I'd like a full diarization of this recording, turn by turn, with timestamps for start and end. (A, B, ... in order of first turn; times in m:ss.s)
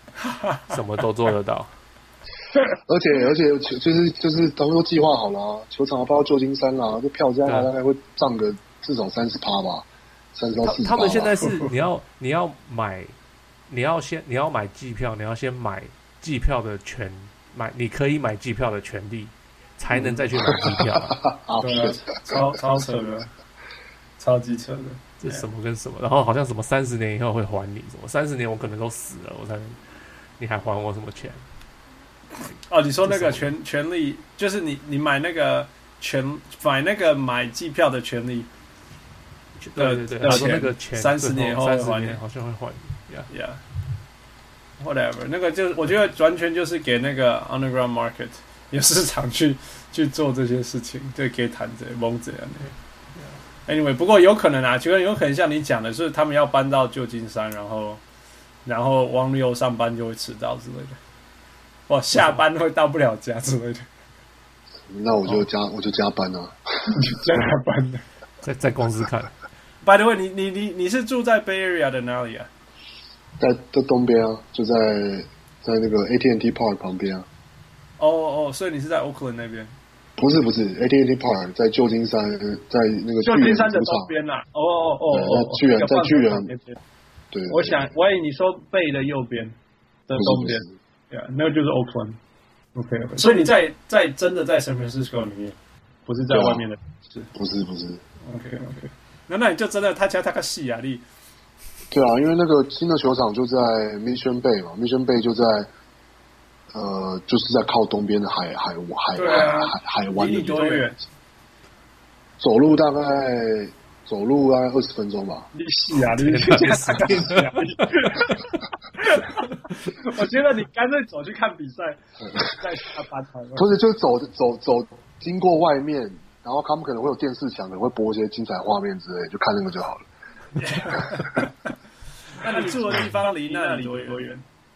0:00.3-0:00.6 A
0:00.6-0:01.7 B
0:02.9-0:11.5 C
0:10.6-0:13.1 B
0:13.7-0:21.2 B
0:19.9-0:23.1 C
0:21.6-0:23.3 A
0:24.2-0:25.4 A
0:25.2-0:29.8 B
0:30.4-0:31.4 B
0:32.7-0:38.5 A
0:33.0-0:33.5 B
0:39.6-0:43.3 B
0:39.8-0:42.2 A
0:43.3-0:43.6 A
0:44.8-0:52.7 A
0:53.6-0:58.0 A
0:58.6-1:01.0 A
1:01.9-1:03.8 A
1:04.9-1:07.0 C
1:06.9-1:08.0 A
1:08.4-1:09.3 B
1:09.8-1:12.5 A
1:13.4-1:17.3 C
1:18.0-1:19.7 A
1:20.2-1:24.1 C
1:23.2-1:26.8 A
1:25.1-1:26.5 C
1:27.3-1:27.9 C
1:27.5-1:29.5 A
1:30.1-1:32.2 A
1:30.1-1:30.7 C
1:32.8-1:37.3 A
1:36.3-1:36.6 C
1:37.3-1:38.0 C
1:38.2-1:41.0 A
1:41.9-1:45.7 C
1:46.7-1:50.9 C
1:49.1-1:51.0 A
1:52.4-1:55.5 C
1:55.5-2:03.6 A
1:56.1-1:57.9 B
2:03.5-2:10.1 C
2:10.6-2:11.5 A
2:10.9-2:11.4 C
2:12.4-2:14.4 A